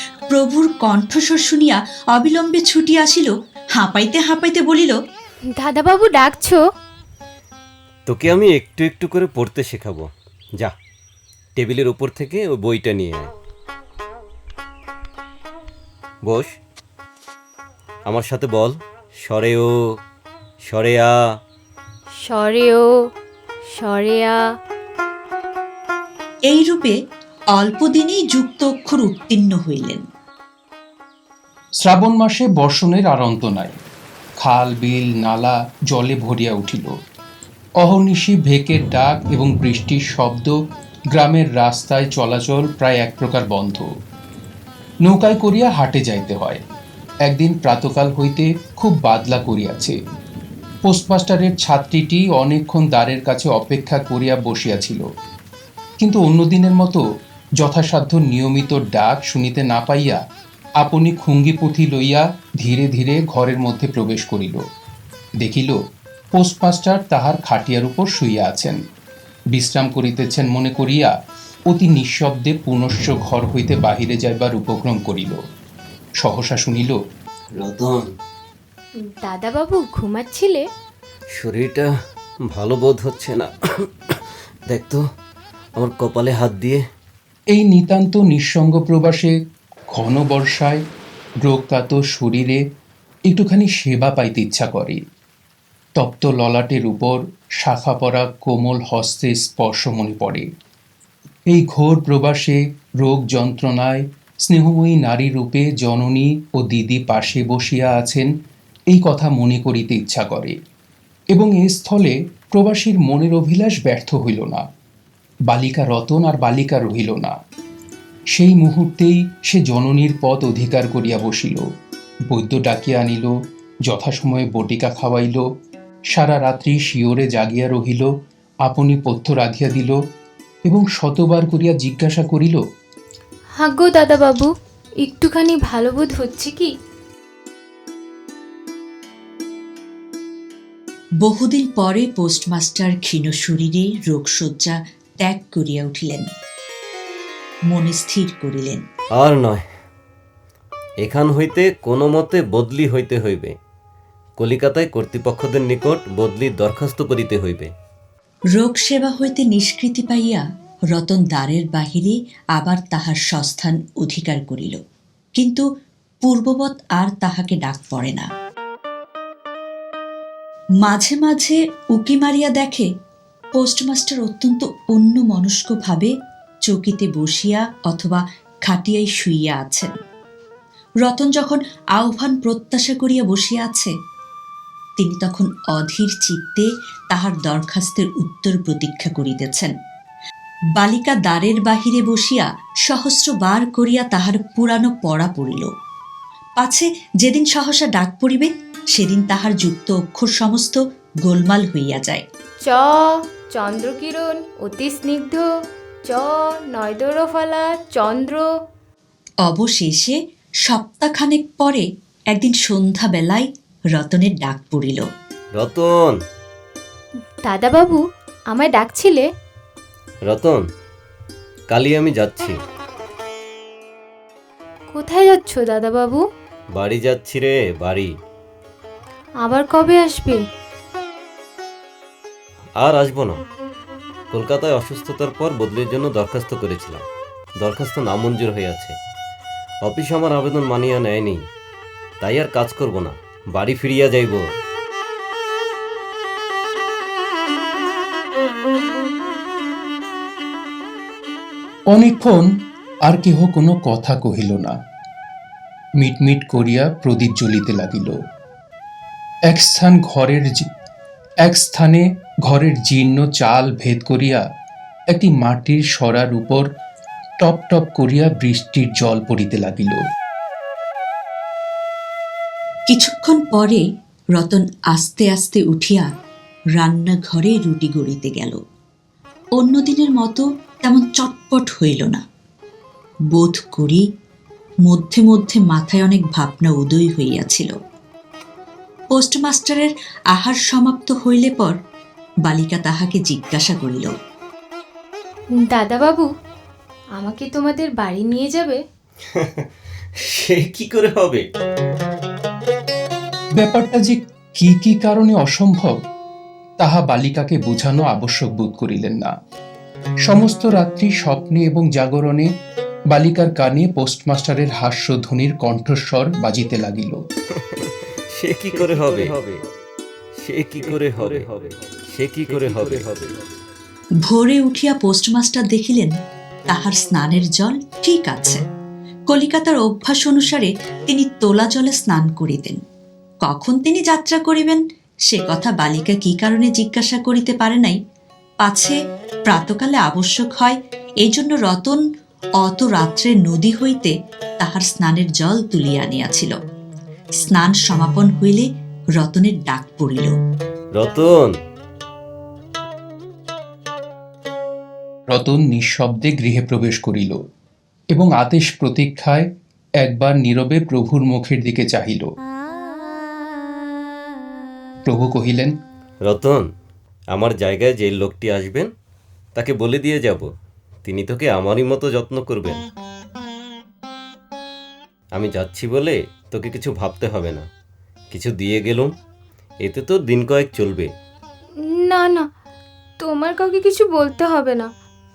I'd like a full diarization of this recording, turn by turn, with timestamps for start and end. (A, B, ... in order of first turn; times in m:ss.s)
0:00.3-0:05.0 A
0:05.5-0:06.6 B
0:08.1-0:10.1 C
0:11.6-0:13.3 C
0:18.1-0:19.7 C
0:20.6-0:21.1 C
0:22.2-0:22.9 B
0:23.7-0:24.4 B
0:26.4-0:27.0 A
0:27.5-0:30.0 A
0:31.8-0:33.8 D
0:34.4-0:36.9 D
0:37.8-0:40.5 D
0:41.1-0:43.9 D
0:45.1-0:46.6 D
0:47.3-0:50.0 D
0:50.8-0:55.0 D
0:56.0-0:57.0 D
0:57.6-1:00.2 D
1:00.8-1:04.6 D
1:05.4-1:05.7 D
1:06.4-1:08.8 D
1:09.5-1:11.1 D
1:11.7-1:15.4 D
1:16.2-1:17.0 D
1:17.6-1:18.1 C
1:19.0-1:20.6 B
1:21.3-1:21.9 C
1:22.5-1:23.5 C
1:24.1-1:25.0 C
1:25.8-1:26.8 C
1:27.5-1:29.3 D
1:29.9-1:30.8 D
1:31.4-1:32.6 D
1:33.3-1:35.0 D
1:36.0-1:40.5 D
1:41.5-1:48.3 D
1:48.9-1:50.6 D
1:51.3-1:54.6 D
1:55.5-1:57.3 D
1:58.3-2:01.6 D
2:02.3-2:03.3 D
2:03.9-2:05.4 D
2:06.1-2:08.1 D
2:08.7-2:10.0 D
2:10.7-2:12.6 D
2:13.6-2:14.5 B
2:15.0-2:16.7 B
2:21.2-2:26.3 A
2:27.7-2:28.8 A
2:29.2-2:29.6 C
2:31.0-2:33.5 C
2:34.4-2:37.7 C
2:38.6-2:44.8 A
2:45.4-2:45.6 A
2:46.2-2:48.3 A
2:50.8-2:52.9 A
2:53.6-2:56.1 A
2:56.7-2:59.9 A
3:01.0-3:03.9 A
3:05.0-3:09.7 A
3:10.8-3:15.7 A
3:16.6-3:22.2 A
3:22.6-3:25.4 B
3:26.1-3:28.5 B
3:29.4-3:35.1 A
3:35.6-3:36.2 C
3:37.4-3:39.3 B
3:40.3-3:40.6 C
3:41.7-3:42.6 C
3:44.9-3:46.2 B
3:46.7-3:48.1 C
3:49.4-3:50.4 B
3:52.8-3:53.4 C
3:54.3-3:57.0 C
3:57.6-3:59.0 C
3:59.8-4:01.4 C
4:02.2-4:04.4 C
4:11.9-4:12.5 D
4:13.0-4:14.8 D
4:16.0-4:18.2 D
4:19.5-4:20.6 D
4:21.4-4:24.4 D
4:25.1-4:26.6 D
4:27.4-4:30.0 D
4:32.9-4:33.8 A
4:34.4-4:36.1 A
4:36.8-4:38.6 A
4:39.6-4:42.2 A
4:43.3-4:44.0 A
4:44.9-4:47.7 A
4:49.1-4:51.8 A
4:52.5-4:54.1 A
4:55.6-4:56.3 B
4:57.2-4:58.8 B
4:59.3-4:59.6 C
5:00.2-5:01.4 C
5:03.6-5:05.9 D
5:06.8-5:09.3 D
5:10.3-5:12.5 D
5:13.1-5:17.2 D
5:17.8-5:19.6 C
5:20.4-5:23.3 C
5:24.2-5:26.1 A
5:26.7-5:28.6 A
5:29.3-5:32.8 A
5:33.4-5:38.0 A
5:38.6-5:39.0 A
5:39.5-5:42.0 A
5:42.6-5:46.6 A
5:47.4-5:50.4 A
5:51.0-5:51.5 C
5:55.3-5:57.4 D
5:58.1-5:59.4 D
6:00.0-6:02.3 D
6:05.1-6:05.7 D
6:06.3-6:06.6 C
6:07.3-6:08.9 C
6:09.6-6:10.5 C
6:11.0-6:12.8 C
6:15.3-6:17.7 C
6:18.3-6:19.1 C
6:19.8-6:21.1 C
6:21.9-6:22.5 B
6:23.2-6:24.9 B